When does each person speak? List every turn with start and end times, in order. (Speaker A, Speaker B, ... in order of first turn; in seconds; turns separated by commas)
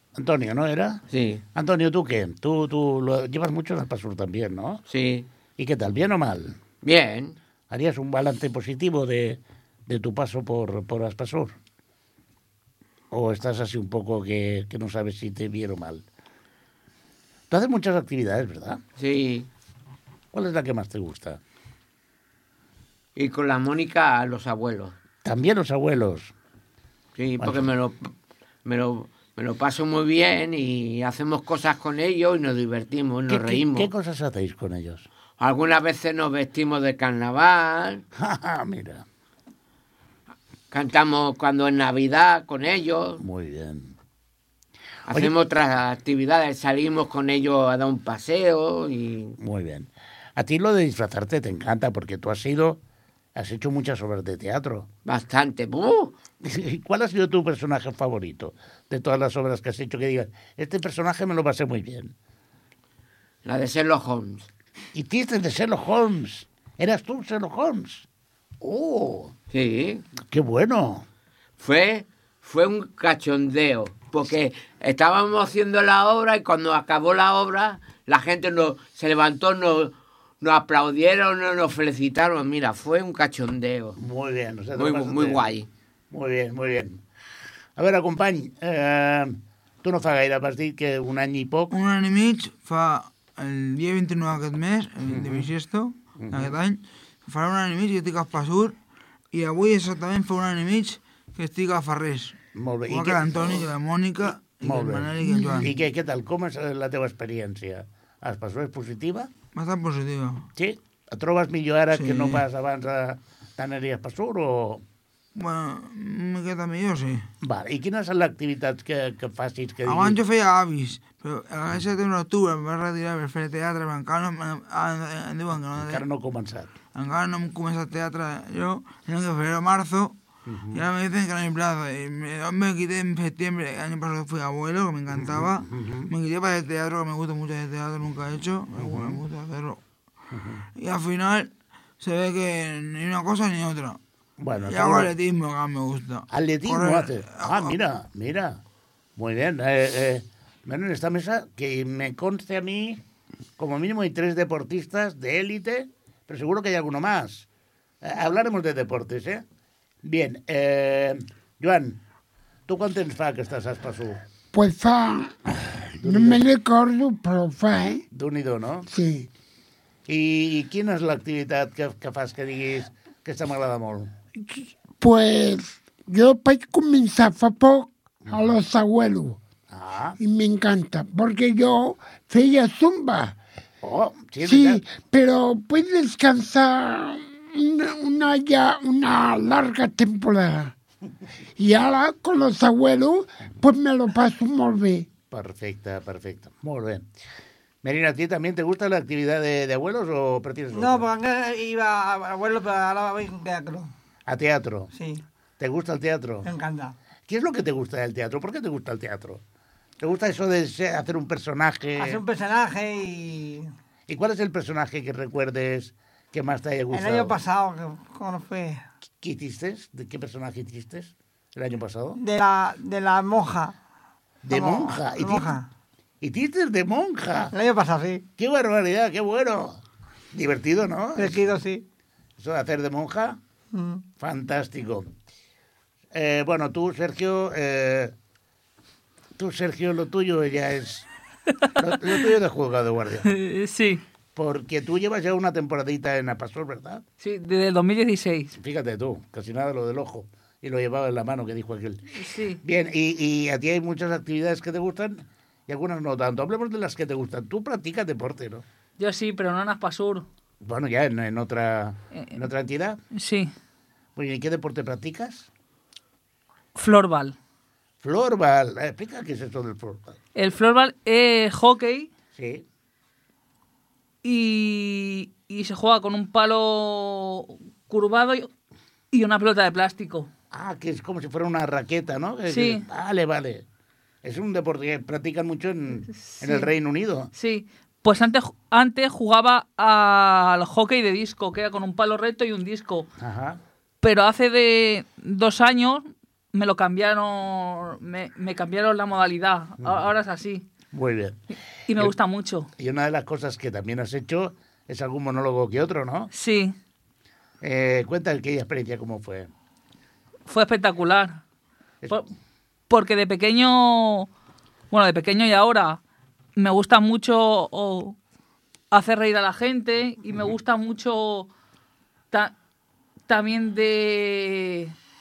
Speaker A: 0.1-1.0, Speaker B: 1.1-1.4, Speaker A: 1.5-4.8, Speaker B: 4.9-5.3, Speaker A: 5.6-6.6, Speaker B: 6.8-7.3, Speaker A: 7.7-11.5, Speaker A: 13.1-16.0, Speaker A: 17.5-18.8, Speaker B: 19.0-19.5, Speaker A: 20.3-21.4, Speaker B: 23.1-24.9, Speaker A: 25.2-26.3, Speaker B: 27.1-28.1, Speaker A: 27.4-27.7, Speaker B: 28.6-33.9, Speaker A: 33.3-35.1, Speaker B: 35.4-38.0, Speaker A: 38.2-39.0, Speaker B: 40.7-43.2, Speaker A: 43.2-43.9, Speaker B: 45.1-49.4, Speaker A: 49.4-52.8, Speaker A: 53.4-54.9, Speaker B: 55.0-56.1, Speaker A: 56.4-62.1, Speaker B: 63.4-64.5, Speaker A: 64.9-68.0, Speaker A: 68.6-69.3, Speaker B: 69.5-70.0, Speaker A: 70.3-71.0, Speaker B: 71.6-84.0, Speaker A: 84.0-85.4, Speaker B: 84.7-85.7, Speaker A: 86.1-87.0, Speaker A: 87.8-91.7, Speaker C: 91.7-98.8, Speaker A: 95.1-95.5, Speaker A: 96.2-96.5, Speaker C: 99.3-102.4, Speaker A: 102.5-103.7, Speaker C: 102.9-105.7, Speaker A: 104.6-109.3, Speaker C: 109.5-110.5, Speaker A: 110.5-114.8, Speaker C: 111.9-112.4, Speaker C: 115.3-117.2, Speaker A: 117.4-120.2, Speaker C: 119.8-126.0, Speaker A: 125.7-126.7, Speaker C: 126.9-130.1, Speaker A: 130.5-130.8, Speaker C: 130.7-139.8, Speaker A: 135.1-136.1, Speaker A: 138.8-139.2, Speaker A: 140.3-140.6, Speaker C: 140.8-144.0, Speaker A: 144.4-145.1, Speaker C: 144.6-147.8, Speaker A: 146.3-148.6, Speaker A: 149.2-153.0, Speaker A: 153.6-157.5, Speaker A: 158.0-159.4, Speaker A: 160.0-162.0, Speaker A: 162.7-164.2, Speaker D: 164.5-165.3, Speaker A: 166.0-166.4, Speaker D: 166.0-168.0, Speaker A: 168.1-168.9, Speaker D: 168.9-169.3, Speaker A: 170.1-174.1, Speaker D: 174.4-179.4, Speaker A: 179.7-180.2, Speaker D: 180.2-183.4, Speaker A: 183.8-184.8, Speaker D: 184.4-190.7, Speaker D: 191.6-195.1, Speaker A: 195.3-197.1, Speaker A: 197.8-201.1, Speaker E: 200.7-203.9, Speaker A: 204.3-204.9, Speaker E: 204.9-205.2, Speaker A: 205.6-206.5, Speaker E: 206.4-206.9, Speaker A: 207.3-209.4, Speaker A: 210.0-212.2, Speaker E: 212.0-213.7, Speaker A: 214.1-217.4, Speaker E: 216.9-218.8, Speaker A: 219.2-222.2, Speaker E: 222.2-223.8, Speaker E: 224.4-225.7, Speaker A: 224.4-225.5, Speaker A: 226.2-227.5, Speaker E: 227.5-228.2, Speaker A: 228.4-229.8, Speaker A: 230.3-231.4, Speaker E: 231.2-231.8, Speaker A: 232.4-233.4, Speaker E: 233.7-234.0, Speaker A: 234.2-235.1, Speaker A: 236.1-238.1, Speaker A: 239.4-241.1, Speaker A: 241.8-243.3, Speaker F: 243.2-244.0, Speaker A: 244.3-247.0, Speaker F: 247.2-248.5, Speaker A: 248.6-258.6, Speaker F: 252.1-252.6, Speaker F: 259.0-260.2, Speaker A: 260.6-263.0, Speaker F: 263.1-263.5, Speaker A: 264.1-265.5, Speaker F: 266.8-267.3, Speaker A: 268.0-270.2, Speaker F: 270.3-272.1, Speaker A: 272.3-272.6, Speaker F: 274.2-278.5, Speaker F: 279.1-280.3, Speaker A: 280.5-283.6, Speaker F: 282.5-282.8, Speaker A: 284.2-287.3, Speaker F: 286.1-286.7, Speaker F: 287.3-293.1, Speaker A: 293.2-293.6, Speaker F: 294.0-300.7, Speaker A: 300.9-301.4, Speaker F: 301.9-302.7, Speaker A: 302.8-306.3, Speaker F: 306.3-306.7, Speaker A: 307.6-309.5, Speaker F: 310.5-311.4, Speaker F: 312.9-314.3, Speaker F: 314.9-316.0, Speaker F: 316.6-318.1, Speaker F: 318.9-321.5, Speaker F: 323.3-324.9